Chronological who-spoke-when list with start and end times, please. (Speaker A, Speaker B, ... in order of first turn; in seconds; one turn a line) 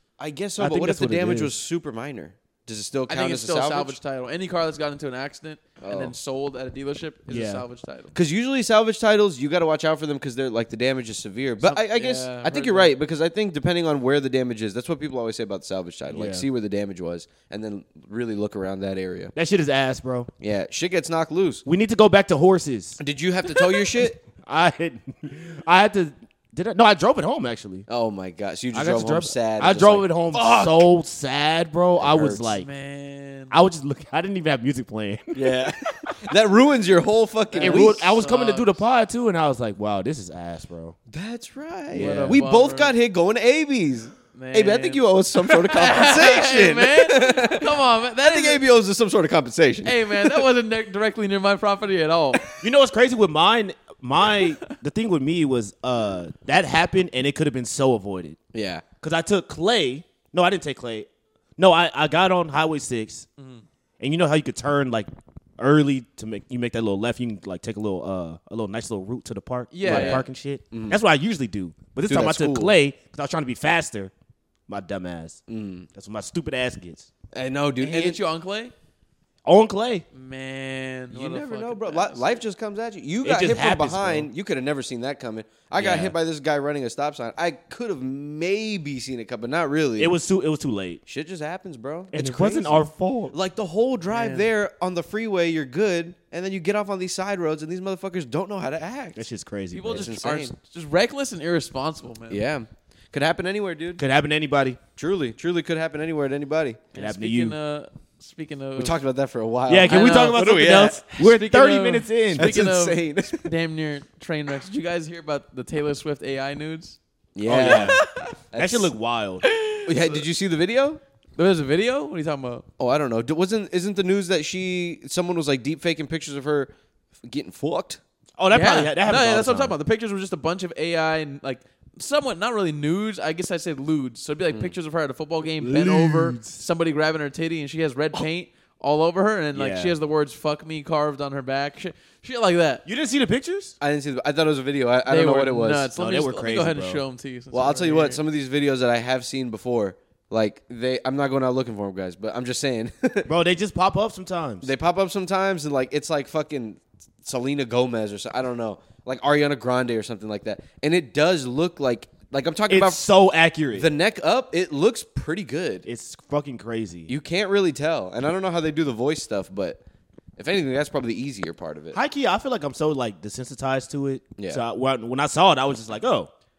Speaker A: 0.2-4.0
Speaker B: 0.6-1.5
Speaker C: 3.1-8.1
Speaker A: 5.8-6.1
Speaker B: 7.3-7.6
Speaker A: 8.1-19.3
Speaker C: 11.6-12.9
Speaker B: 16.1-16.4
Speaker B: 19.3-20.3
Speaker A: 20.4-21.6
Speaker B: 21.6-23.0
Speaker A: 23.0-24.2
Speaker C: 23.5-23.9
Speaker B: 24.3-27.9
Speaker A: 27.9-30.9
Speaker B: 28.7-32.7
Speaker A: 32.0-32.5
Speaker C: 32.5-33.5
Speaker B: 33.5-36.3
Speaker A: 35.3-38.2
Speaker C: 37.5-38.8
Speaker B: 37.6-41.0
Speaker A: 41.1-50.5
Speaker B: 41.9-42.4
Speaker C: 42.0-42.9
Speaker C: 44.3-48.6
Speaker C: 49.8-52.4
Speaker B: 52.6-58.4
Speaker A: 58.5-58.8
Speaker B: 59.0-63.3
Speaker C: 63.4-63.6
Speaker B: 64.0-74.1
Speaker C: 69.7-70.2
Speaker A: 69.8-71.0
Speaker A: 72.1-72.7
Speaker B: 74.7-75.4
Speaker A: 75.5-75.9
Speaker B: 75.9-77.1
Speaker A: 77.3-78.2
Speaker C: 77.8-78.7
Speaker B: 79.4-80.0
Speaker C: 80.1-82.4
Speaker A: 81.1-90.1
Speaker B: 83.2-84.3
Speaker B: 85.8-86.2
Speaker B: 90.0-91.0
Speaker A: 91.1-99.3
Speaker B: 92.1-93.3
Speaker C: 94.1-94.5
Speaker B: 99.2-100.2
Speaker C: 99.7-102.4
Speaker A: 99.9-100.5
Speaker A: 102.3-104.0
Speaker B: 104.0-104.8
Speaker A: 105.0-106.8
Speaker C: 106.9-109.0
Speaker B: 106.9-107.5
Speaker A: 108.8-111.2
Speaker B: 109.7-112.5
Speaker C: 109.8-110.4
Speaker C: 111.1-117.0
Speaker A: 112.3-113.5
Speaker A: 117.3-118.9
Speaker B: 117.5-118.0
Speaker C: 117.6-118.3
Speaker B: 118.5-119.5
Speaker C: 119.4-119.9
Speaker A: 119.8-121.0
Speaker C: 121.4-122.6
Speaker A: 122.8-126.7
Speaker A: 127.2-128.0
Speaker B: 128.4-129.8
Speaker C: 128.5-142.8
Speaker B: 135.5-136.6
Speaker B: 139.5-139.9
Speaker B: 142.8-143.7
Speaker A: 143.8-145.9
Speaker C: 145.1-148.2
Speaker B: 145.9-147.0
Speaker A: 147.5-153.3
Speaker B: 153.2-154.7
Speaker A: 154.6-163.0
Speaker B: 162.7-163.9
Speaker A: 163.7-165.8
Speaker B: 165.8-167.1
Speaker A: 167.1-169.8
Speaker A: 170.4-172.0
Speaker B: 171.9-176.3